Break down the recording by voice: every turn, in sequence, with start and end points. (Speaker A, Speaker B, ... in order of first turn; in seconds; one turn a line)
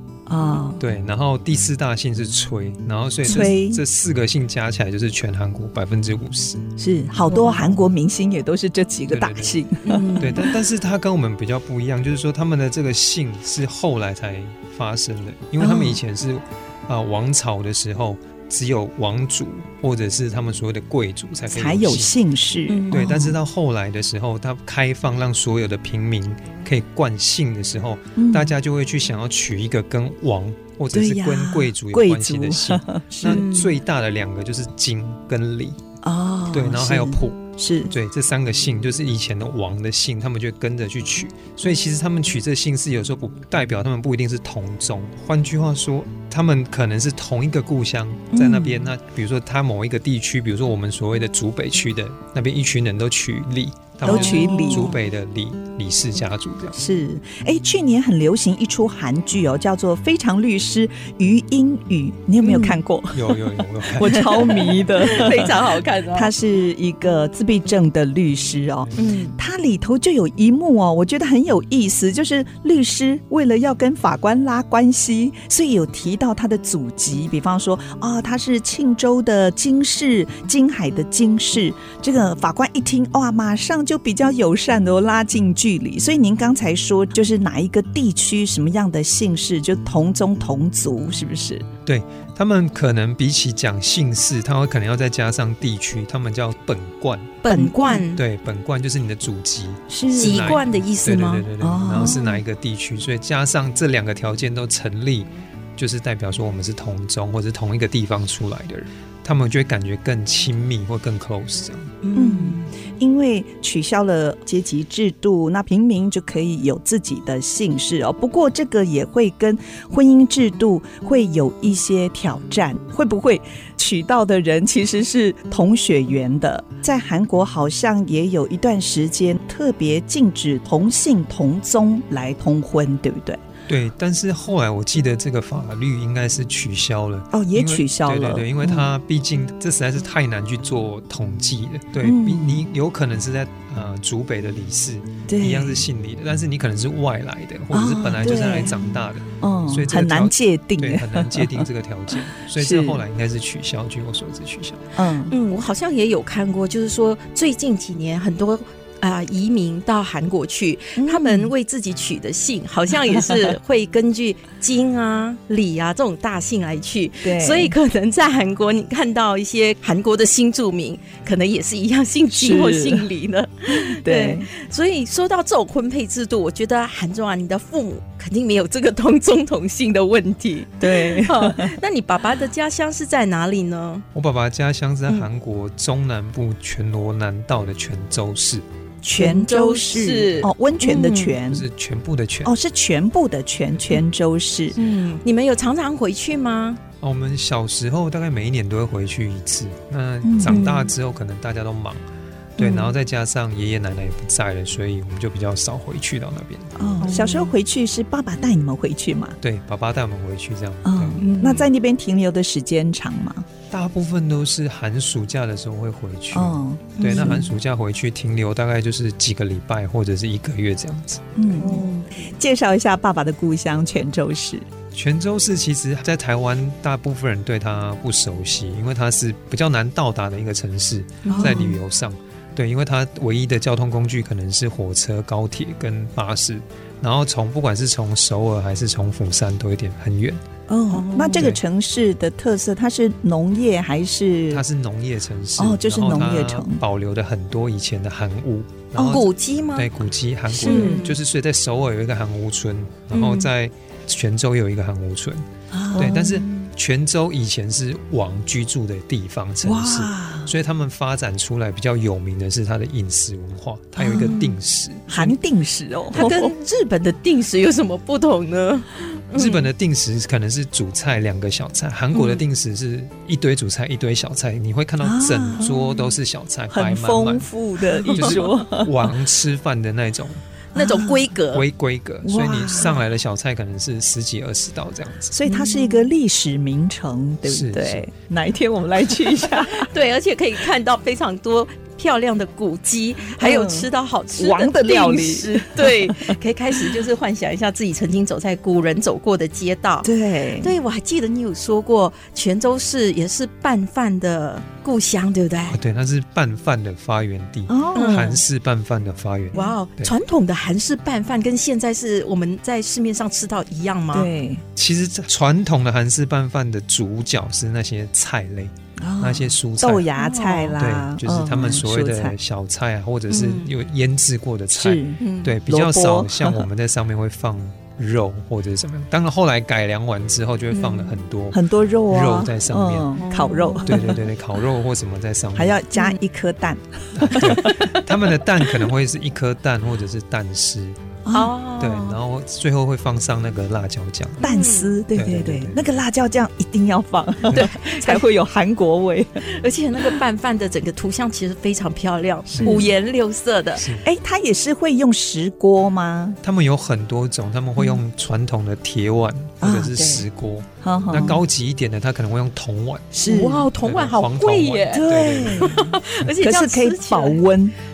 Speaker A: 0.3-0.8
Speaker B: 0.8-6.7
Speaker A: 3.2-3.8
Speaker A: 6.8-10.5
Speaker C: 7.3-7.7
Speaker B: 9.1-9.6
Speaker C: 9.8-10.4
Speaker B: 10.2-22.1
Speaker A: 15.6-16.0
Speaker A: 21.5-23.4
Speaker C: 22.7-23.0
Speaker B: 22.9-35.8
Speaker A: 28.2-28.6
Speaker A: 30.9-33.7
Speaker C: 33.2-33.7
Speaker A: 36.0-37.9
Speaker B: 36.5-56.8
Speaker A: 48.3-48.9
Speaker A: 54.0-55.0
Speaker C: 54.1-54.9
Speaker A: 56.8-65.6
Speaker C: 62.4-62.8
Speaker B: 63.1-65.2
Speaker C: 64.0-66.3
Speaker A: 66.1-91.7
Speaker C: 69.0-69.3
Speaker B: 91.9-97.4
Speaker C: 97.4-98.2
Speaker A: 97.5-98.0
Speaker B: 98.1-111.9
Speaker A: 99.9-100.6
Speaker C: 100.2-101.5
Speaker A: 101.6-102.2
Speaker C: 102.0-102.4
Speaker C: 112.0-112.7
Speaker A: 112.1-133.4
Speaker B: 133.7-154.8
Speaker A: 137.3-138.9
Speaker A: 142.0-142.6
Speaker A: 145.3-145.8
Speaker A: 147.7-148.8
Speaker A: 149.4-151.7
Speaker A: 152.6-153.0
Speaker A: 155.0-155.3
Speaker C: 155.3-184.0
Speaker A: 161.0-161.5
Speaker A: 167.2-167.8
Speaker A: 172.3-173.1
Speaker A: 173.7-174.5
Speaker A: 180.8-181.8
Speaker B: 184.2-188.6
Speaker A: 189.0-191.7
Speaker C: 189.1-191.4
Speaker B: 191.5-192.5
Speaker A: 192.4-194.8
Speaker C: 194.8-196.8
Speaker B: 197.0-202.0
Speaker A: 200.2-200.7
Speaker C: 200.5-200.9
Speaker B: 202.6-206.7
Speaker A: 202.6-202.9
Speaker A: 206.8-209.4
Speaker C: 207.0-207.5
Speaker B: 209.4-211.2
Speaker A: 210.8-213.5
Speaker C: 211.2-211.7
Speaker B: 213.7-221.3
Speaker A: 216.3-217.5
Speaker C: 217.0-217.4
Speaker A: 221.4-224.7
Speaker C: 221.6-222.3
Speaker B: 224.9-240.4
Speaker C: 231.2-231.6
Speaker A: 231.3-231.8
Speaker A: 240.7-244.6
Speaker C: 240.9-241.5
Speaker B: 244.5-265.4
Speaker A: 245.6-246.8
Speaker A: 249.0-249.2
Speaker C: 249.0-249.9
Speaker A: 250.5-251.1
Speaker C: 250.6-251.1
Speaker C: 253.1-253.5
Speaker A: 255.7-256.5
Speaker A: 259.6-260.5
Speaker A: 264.0-264.5
Speaker A: 265.1-266.5
Speaker C: 266.1-269.7
Speaker B: 269.4-277.5
Speaker C: 272.1-272.4
Speaker A: 275.0-275.7
Speaker A: 276.7-278.9
Speaker C: 278.0-278.3
Speaker B: 278.1-280.4
Speaker C: 280.7-281.6
Speaker A: 280.8-281.1
Speaker B: 281.5-285.3
Speaker A: 282.2-283.0
Speaker A: 285.3-289.9
Speaker C: 285.5-286.0
Speaker B: 287.5-288.1
Speaker C: 289.7-300.1
Speaker A: 293.4-296.4
Speaker A: 300.0-300.7
Speaker C: 300.6-305.8
Speaker B: 305.7-310.1
Speaker A: 307.7-308.4
Speaker C: 307.9-308.4
Speaker C: 309.5-314.3
Speaker A: 314.1-314.6
Speaker B: 314.8-320.1
Speaker A: 319.0-322.4
Speaker C: 320.2-320.8
Speaker B: 320.8-333.1
Speaker C: 323.3-323.7
Speaker A: 324.7-326.6
Speaker C: 325.2-325.5
Speaker C: 330.7-331.1
Speaker A: 331.5-334.2
Speaker C: 333.2-334.2
Speaker B: 333.9-335.8
Speaker A: 335.6-337.9
Speaker B: 337.1-341.0
Speaker C: 337.6-337.9
Speaker A: 341.2-341.5
Speaker C: 341.3-342.2
Speaker B: 341.8-344.4
Speaker C: 344.4-344.9
Speaker A: 344.4-349.4
Speaker B: 345.1-345.9
Speaker C: 347.5-348.2
Speaker C: 349.4-353.8
Speaker B: 352.5-352.9
Speaker A: 352.6-352.9
Speaker B: 353.8-354.1
Speaker A: 354.0-356.4
Speaker B: 356.4-363.1
Speaker A: 359.6-360.2
Speaker A: 360.8-361.4
Speaker A: 363.1-363.7
Speaker C: 363.2-367.4
Speaker B: 363.8-365.8
Speaker A: 364.9-367.8